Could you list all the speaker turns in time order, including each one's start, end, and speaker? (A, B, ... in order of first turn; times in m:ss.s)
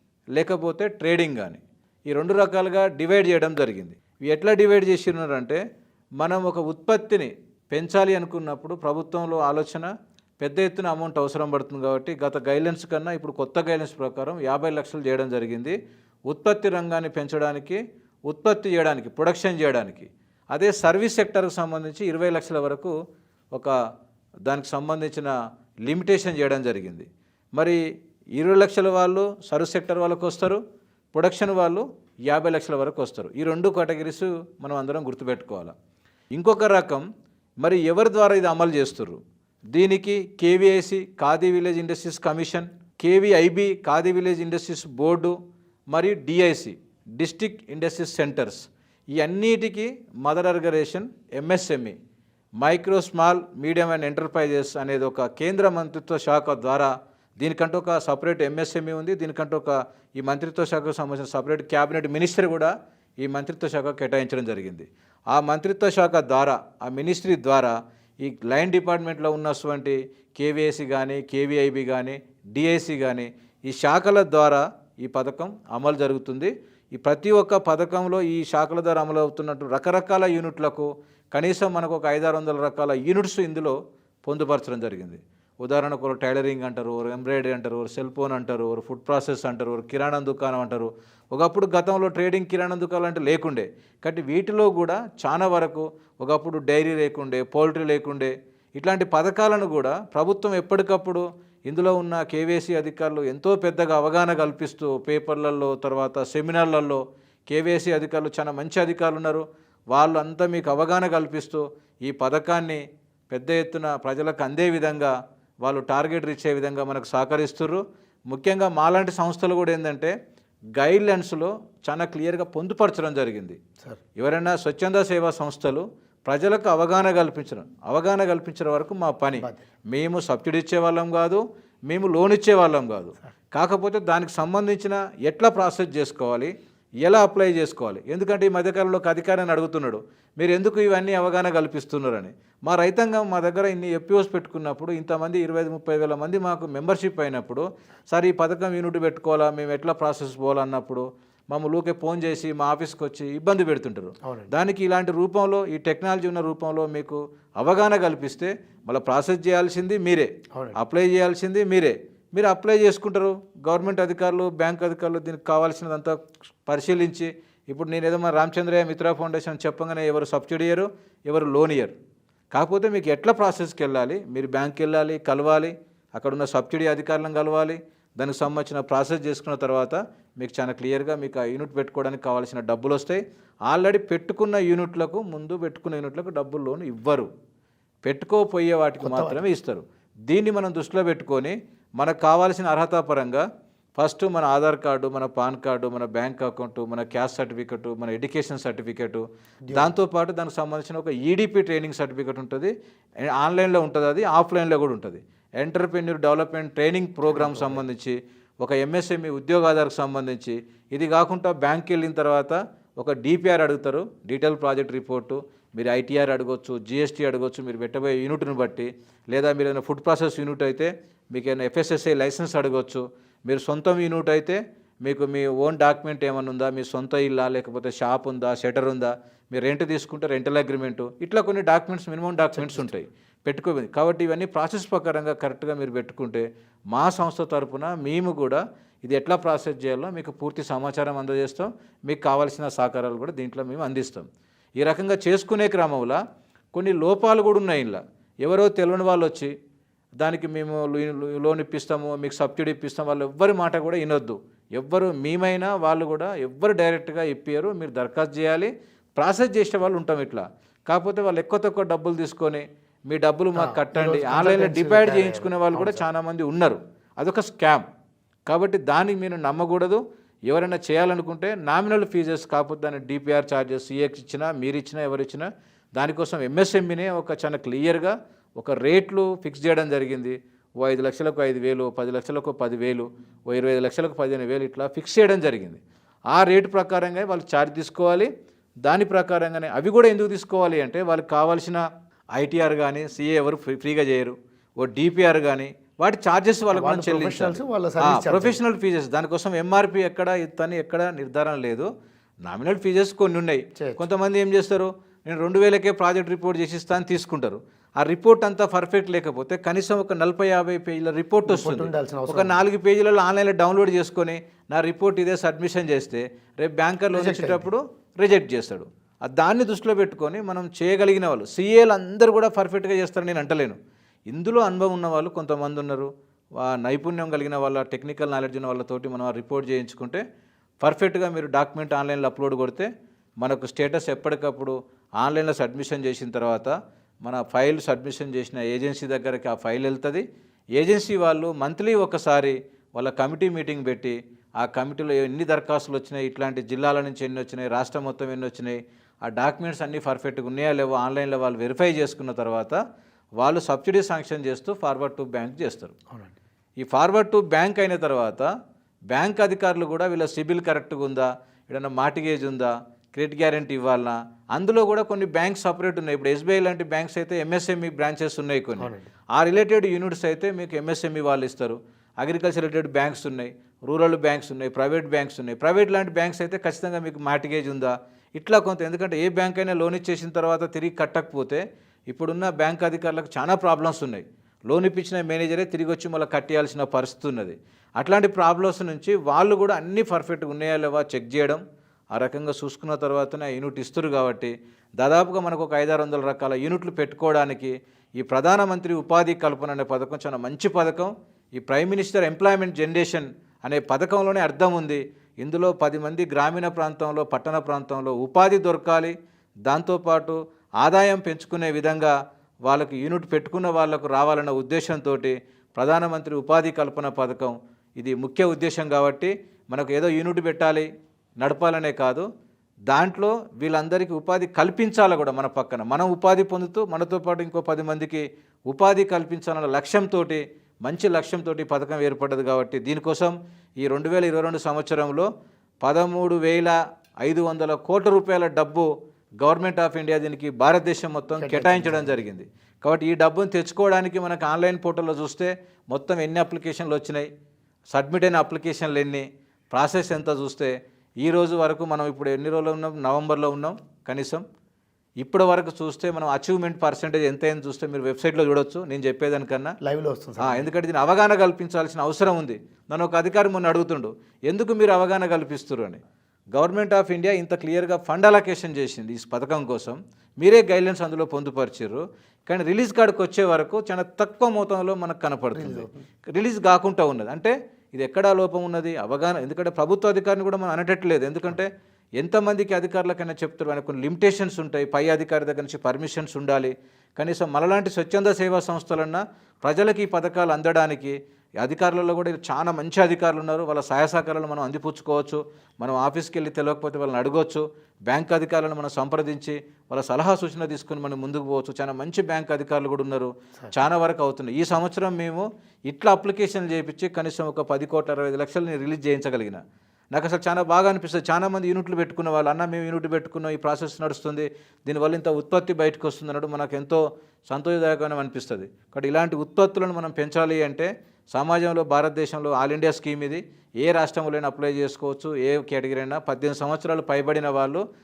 0:00.4-0:05.6 A
0:06.2-0:09.9 A
0:10.4-0:22.9 A
0:24.5-0:25.3 A
0:25.8-0:27.8 A
0:28.4-0:30.6 A
0:31.1-0:35.7 A
0:36.3-0:37.0 A
0:37.6-0:39.2 A
0:39.7-0:45.3 A
0:45.9-0:52.0 A
0:52.6-1:52.8 A
1:53.3-2:00.1 A
2:00.7-2:03.6 A
2:04.2-2:16.5 A
2:09.3-2:09.6 B
2:17.0-2:51.9 A
2:52.5-3:07.3 A
3:08.0-3:13.4 A
3:09.0-3:09.4 B
3:14.0-4:04.3 A
3:19.7-3:19.9 B
3:27.3-3:27.8 B
3:52.5-3:53.0 B
4:04.8-4:06.2 A
4:06.7-4:09.5 A
4:10.2-4:27.8 A
4:23.5-4:26.0 B
4:28.5-4:45.8 A
4:46.3-4:48.3 A
4:48.8-4:51.8 A
4:52.3-5:01.9 A
4:56.7-4:58.6 B
5:02.4-5:23.8 A
5:03.8-5:04.0 B
5:11.4-5:12.6 B
5:17.1-5:17.7 B
5:24.3-5:30.2 A
5:30.8-5:32.9 A
5:33.4-5:36.7 A
5:37.2-5:40.2 A
5:40.8-5:52.8 A
5:53.4-5:55.9 A
5:56.8-5:58.5 A
5:59.1-6:31.6 A
6:08.8-6:09.0 B
6:32.1-6:49.1 A
6:49.7-6:52.1 A
6:52.6-7:00.9 A
7:01.4-7:02.2 A
7:02.9-7:15.3 A
7:15.8-7:18.9 A
7:19.4-7:27.3 A
7:21.4-7:22.2 B
7:27.9-7:34.4 A
7:35.2-7:39.7 A
7:39.8-7:40.7 B
7:40.4-7:46.0 A
7:46.5-8:29.6 A
7:55.5-7:56.0 B
8:30.1-8:47.8 A